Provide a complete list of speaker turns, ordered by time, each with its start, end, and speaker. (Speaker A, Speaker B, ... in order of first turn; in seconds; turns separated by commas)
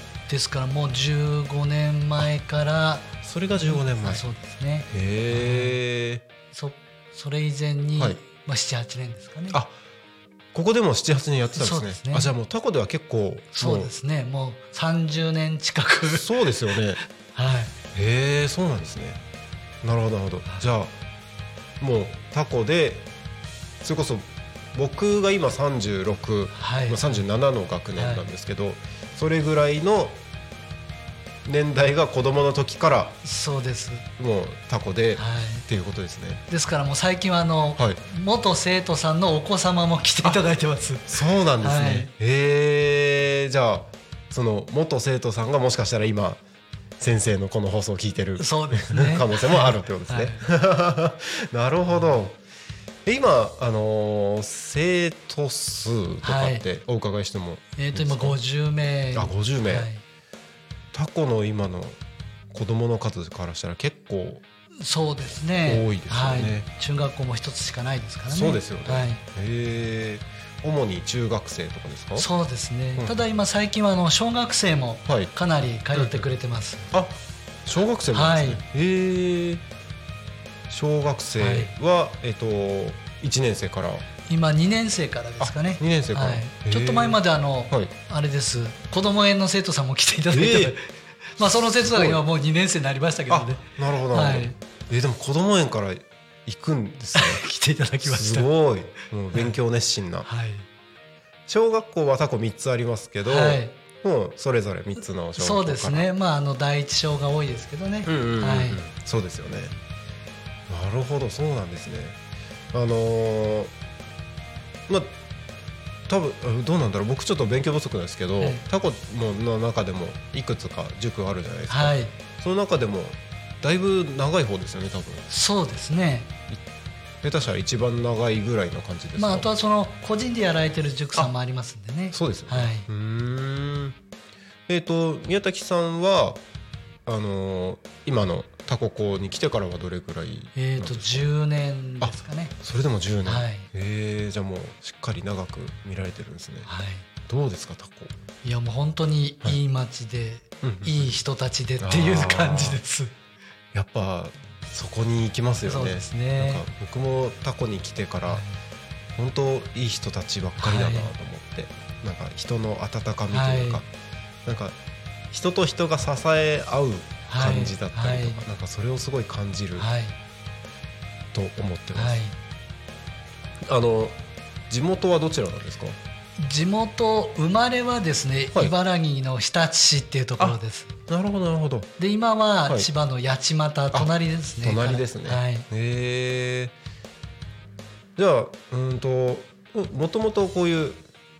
Speaker A: 0.3-5.8, Speaker B: 3.2-4.2, Speaker B: 4.9-6.2, Speaker A: 6.5-9.6, Speaker B: 10.5-13.9, Speaker A: 11.5-12.3, Speaker A: 13.5-16.3, Speaker B: 16.1-17.0, Speaker A: 17.3-17.7, Speaker B: 17.9-19.2, Speaker B: 19.8-20.9, Speaker B: 21.8-23.1, Speaker B: 23.8-30.2, Speaker A: 26.5-27.2, Speaker A: 27.9-28.2, Speaker B: 31.4-33.2, Speaker A: 33.2-34.0, Speaker B: 34.2-36.4, Speaker A: 35.1-35.6, Speaker A: 36.5-41.1, Speaker B: 41.1-46.4, Speaker A: 41.6-42.1, Speaker B: 47.0-52.4, Speaker A: 48.4-50.4, Speaker A: 51.9-52.2, Speaker B: 53.0-58.4, Speaker A: 56.2-56.6, Speaker A: 57.8-60.0, Speaker B: 59.1-59.9, Speaker B: 60.9-62.0, Speaker B: 62.5-64.4, Speaker A: 64.8-69.2, Speaker B: 65.6-66.7, Speaker B: 68.3-72.3, Speaker A: 72.2-76.9, Speaker B: 73.0-73.2, Speaker B: 75.9-76.2, Speaker B: 76.9-79.6, Speaker A: 78.1-78.6, Speaker B: 80.7-84.0, Speaker A: 81.4-81.7, Speaker A: 84.2-94.5, Speaker B: 85.4-87.2, Speaker B: 90.3-90.7, Speaker B: 91.4-92.2, Speaker B: 93.3-97.4, Speaker A: 97.1-98.5, Speaker B: 98.0-100.3, Speaker A: 100.2-100.7, Speaker B: 101.5-106.1, Speaker A: 103.2-103.7, Speaker A: 105.4-108.8, Speaker B: 108.0-109.7, Speaker B: 110.7-112.2, Speaker B: 112.7-113.7, Speaker B: 116.1-125.3, Speaker A: 121.7-122.1, Speaker A: 125.3-126.3, Speaker B: 127.2-129.5, Speaker A: 129.2-132.9, Speaker B: 132.1-134.0, Speaker B: 134.7-136.4, Speaker B: 137.1-141.3, Speaker A: 140.6-142.5, Speaker B: 142.0-146.7, Speaker A: 143.2-143.7, Speaker A: 146.6-147.1, Speaker B: 147.2-148.1, Speaker A: 148.4-153.1, Speaker B: 150.6-151.1, Speaker B: 151.8-152.8, Speaker B: 153.7-158.4, Speaker A: 155.7-156.6, Speaker A: 158.3-158.6, Speaker B: 159.2-163.9, Speaker A: 160.6-161.1, Speaker A: 163.3-163.8, Speaker B: 164.4-164.8, Speaker B: 165.3-169.9, Speaker A: 167.3-168.4, Speaker A: 169.8-170.2, Speaker B: 171.3-172.2, Speaker A: 171.9-172.3, Speaker B: 173.6-174.2, Speaker B: 174.7-176.0, Speaker A: 176.4-180.9, Speaker B: 180.4-181.9, Speaker A: 182.0-185.7, Speaker B: 183.9-186.7, Speaker B: 188.2-191.0